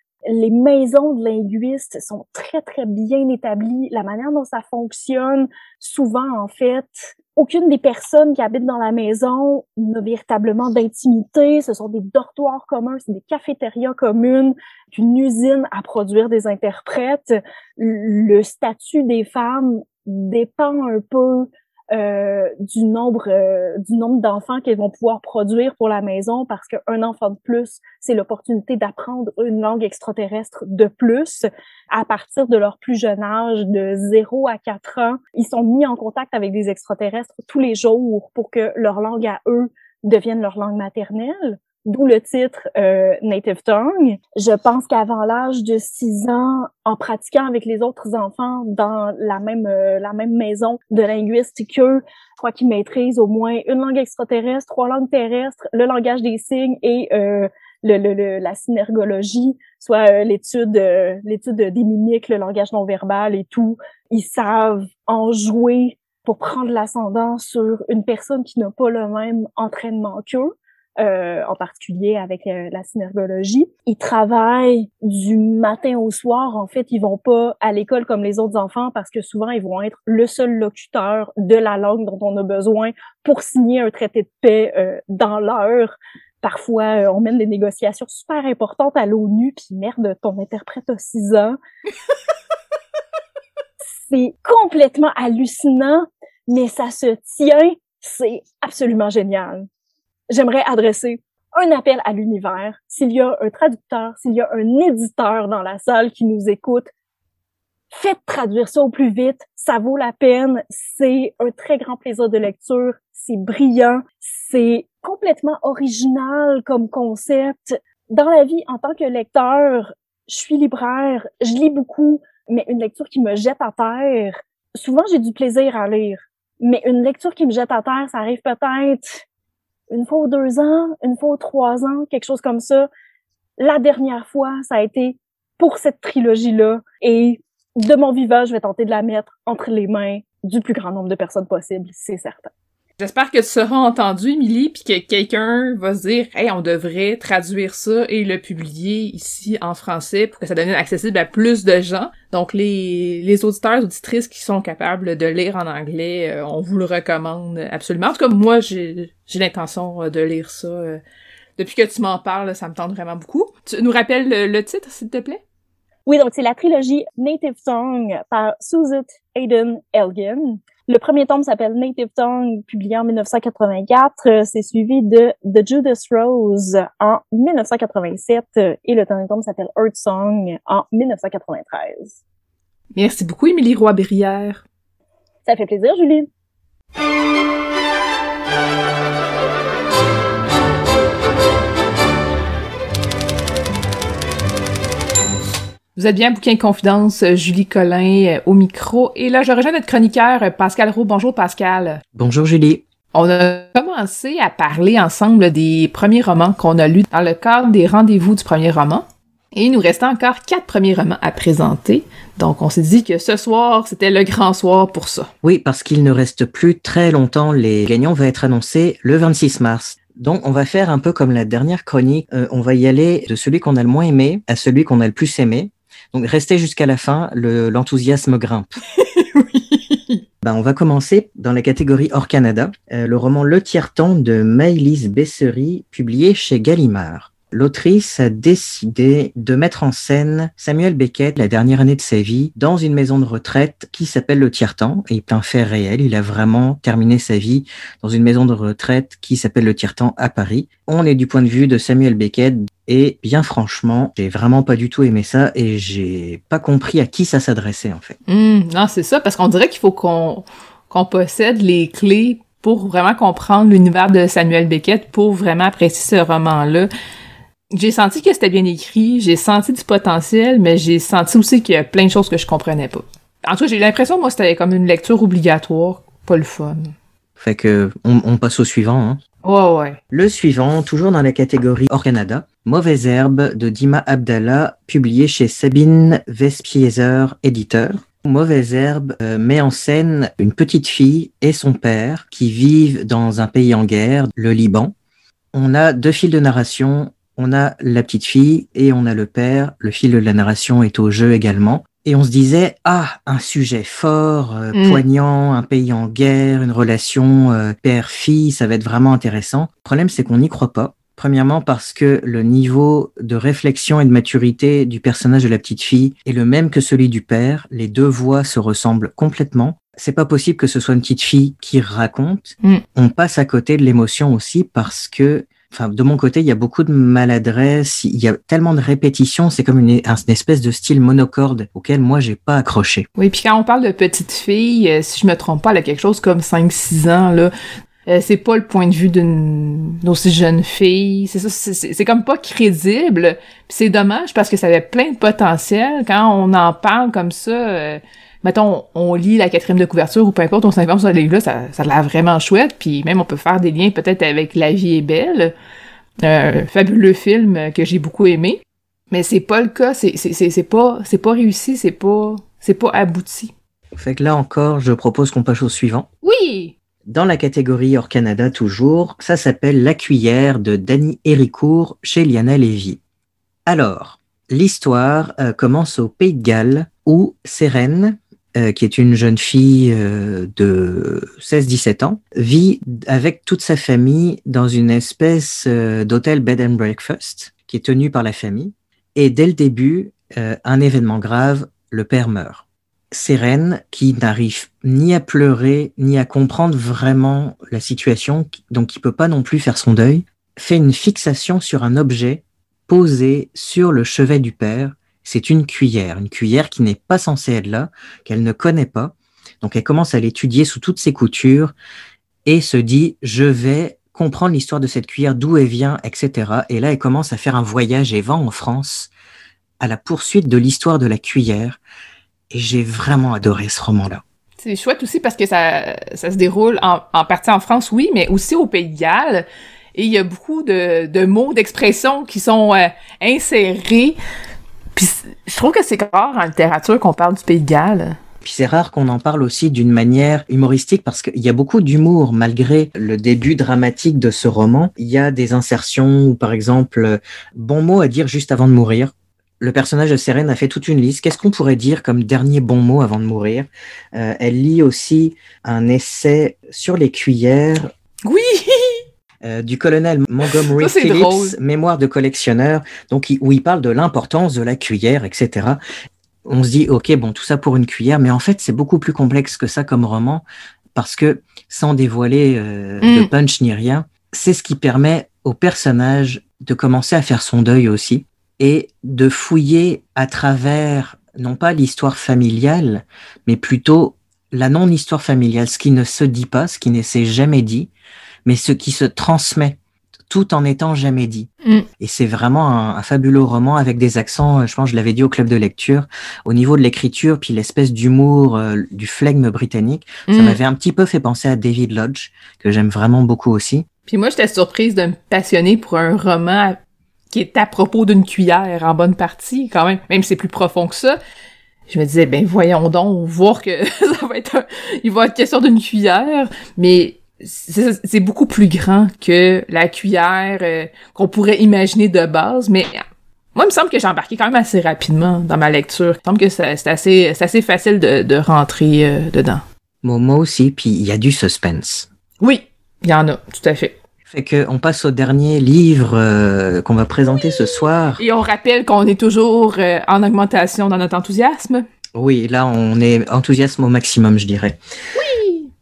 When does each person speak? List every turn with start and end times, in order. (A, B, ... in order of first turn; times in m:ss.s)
0:00.3-1:31.6 A
1:34.0-1:39.7 A
1:40.3-1:46.9 A
1:47.9-2:09.2 A
2:09.9-2:12.9 A
2:13.6-2:22.5 A
2:23.0-2:41.0 B
2:41.6-2:45.4 B
2:46.1-3:02.2 A
3:03.0-3:04.6 B
3:05.5-3:06.3 A
3:16.0-3:22.0 B
3:22.2-3:22.8 C
3:23.1-3:35.3 B
3:35.4-3:48.7 C
3:49.0-3:50.2 B
3:50.4-4:18.2 C
4:18.3-4:26.9 B
4:27.7-4:36.9 B
4:37.4-4:39.2 C
4:39.4-4:40.0 B
4:40.1-4:54.9 C
4:55.5-5:33.1 C
5:04.7-5:05.0 B
5:33.2-5:37.5 B
5:38.1-5:55.5 B
5:56.2-6:03.5 B
6:04.0-6:06.1 C
6:06.2-6:06.7 B
6:07.1-6:13.0 C
6:13.7-6:51.7 C
6:52.5-6:59.1 C
6:59.8-7:01.8 C
7:02.5-7:04.2 C
7:04.6-7:14.2 B
7:15.0-7:18.2 B
7:18.4-7:37.9 C
7:38.2-7:39.0 B
7:39.4-7:45.8 C
7:40.5-7:41.6 B
7:46.4-8:07.9 C
7:53.0-7:53.3 B
8:08.4-8:11.5 C
8:12.0-8:23.9 C
8:20.3-8:20.6 B
8:24.1-8:26.8 B
8:27.3-8:31.2 B
8:31.9-8:43.0 B
8:43.6-8:49.6 B
8:50.0-8:52.1 C
8:52.4-8:54.0 B
8:54.3-8:58.2 C
8:57.3-9:01.8 B
9:02.2-9:04.8 C
9:05.2-9:05.7 B